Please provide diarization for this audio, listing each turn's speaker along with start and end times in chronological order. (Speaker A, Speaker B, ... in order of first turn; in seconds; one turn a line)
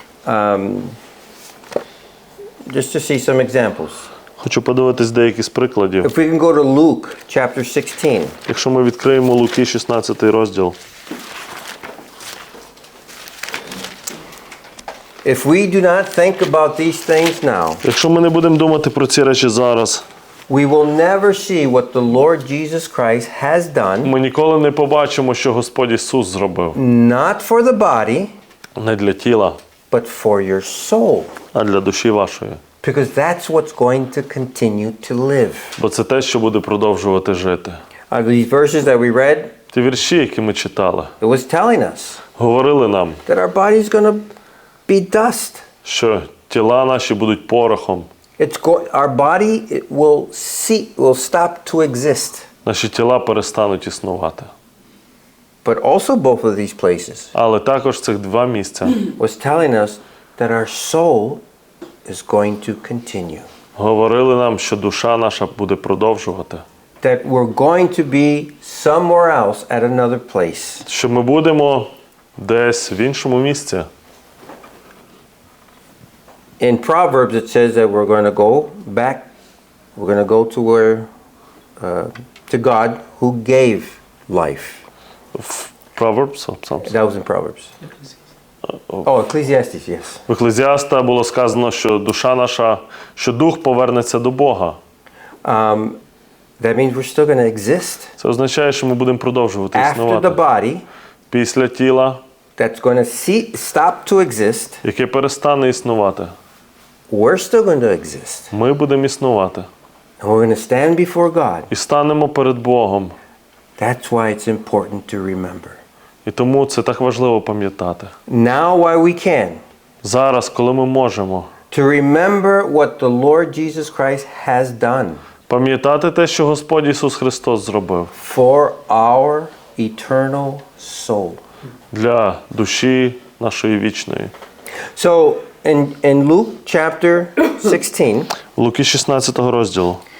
Speaker A: 0.2-1.0
Speaker A: 2.7-4.1
Speaker B: 4.4-6.1
Speaker A: 6.0-8.4
Speaker B: 8.5-10.8
Speaker A: 15.2-17.8
Speaker B: 17.8-20.1
Speaker A: 20.5-24.1
Speaker B: 24.0-26.8
Speaker A: 26.8-28.3
Speaker B: 28.8-29.6
Speaker A: 29.9-31.3
Speaker B: 31.5-32.6
Speaker A: 32.8-35.8
Speaker B: 35.8-37.8
Speaker A: 38.1-39.5
Speaker B: 39.7-41.1
Speaker A: 41.2-42.2
Speaker B: 42.4-43.2
Speaker A: 43.2-44.3
Speaker A: 44.9-45.6
Speaker B: 45.8-48.1
Speaker A: 48.4-52.5
Speaker B: 52.6-54.5
Speaker A: 55.6-57.3
Speaker B: 57.3-59.0
Speaker A: 59.1-61.4
Speaker A: 62.1-63.5
Speaker B: 63.8-66.6
Speaker A: 67.0-70.9
Speaker B: 70.9-73.9
Speaker A: 76.6-79.3
Speaker A: 80.0-81.1
Speaker A: 81.8-84.8
Speaker B: 85.3-86.9
Speaker A: 86.8-87.8
Speaker B: 88.7-89.0
Speaker A: 89.0-90.2
Speaker B: 90.3-94.8
Speaker A: 95.4-96.0
Speaker A: 96.6-98.1
Speaker B: 98.2-100.4
Speaker A: 99.7-100.8
Speaker B: 101.3-102.2
Speaker A: 102.6-104.8
Speaker B: 104.8-106.3
Speaker A: 107.1-108.5
Speaker B: 108.5-109.7
Speaker A: 110.2-111.7
Speaker B: 111.7-113.2
Speaker A: 113.8-115.8
Speaker B: 116.2-118.1
Speaker A: 118.3-119.6
Speaker B: 120.0-121.5
Speaker A: 121.7-125.2
Speaker B: 125.5-128.1
Speaker A: 128.1-131.4
Speaker B: 131.9-134.3
Speaker A: 134.9-138.3
Speaker B: 138.5-140.0